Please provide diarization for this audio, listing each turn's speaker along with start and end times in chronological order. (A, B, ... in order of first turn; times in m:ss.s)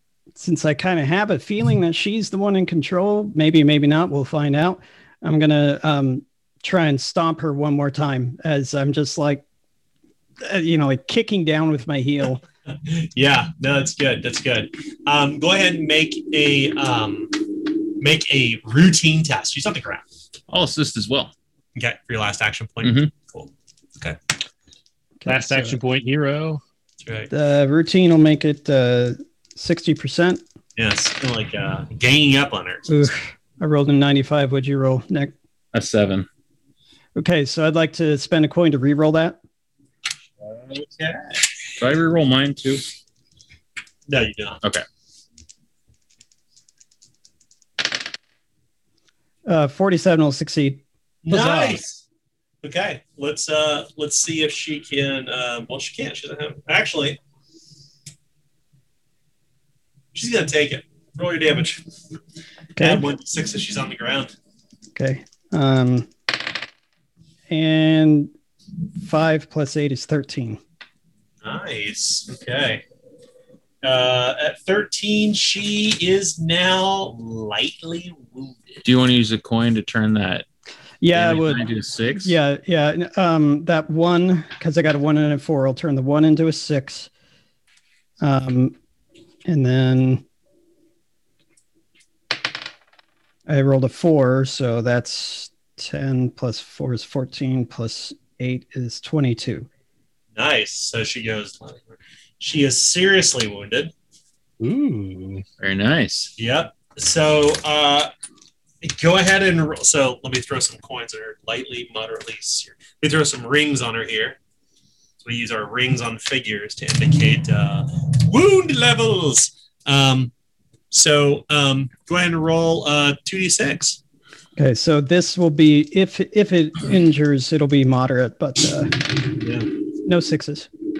0:00.4-0:09.4 A
0:10.4-0:12.4 A
0:12.8-0:20.0 B
0:20.5-0:21.3 C
0:21.8-0:24.2 B
0:22.8-0:23.1 C
0:25.2-0:25.8 A
0:25.3-0:26.6 D
0:27.0-0:27.3 B
0:27.3-0:30.4 A
0:30.8-0:33.1 B
0:32.9-0:35.3 A
0:35.7-0:36.3 C
0:37.2-0:39.4 A
0:40.5-0:41.4 B
0:41.8-0:42.8 C
0:44.1-0:44.6 B
0:49.5-0:51.8 A
0:51.3-0:52.0 B
0:52.6-0:57.2 B
1:00.1-1:01.8 B
1:02.8-1:03.0 A
1:02.8-1:04.3 B
1:05.0-1:06.1 A
1:07.5-1:08.3 A
1:09.0-1:10.6 A
1:11.4-1:12.8 B
1:13.8-1:18.6 B
1:18.8-1:20.5 C
1:21.0-1:21.6 A
1:21.1-1:22.4 C
1:22.2-1:27.1 A
1:28.2-1:28.8 A
1:29.5-1:30.2 A
1:33.5-1:39.7 A
1:40.4-1:43.9 B
1:44.6-1:45.4 D
1:45.6-1:46.3 C
1:46.4-1:48.1 B
1:48.8-1:54.4 B
1:55.2-2:00.3 B
2:00.9-2:04.0 B
2:04.6-2:09.2 A
2:09.4-2:09.7 B
2:10.0-2:10.7 A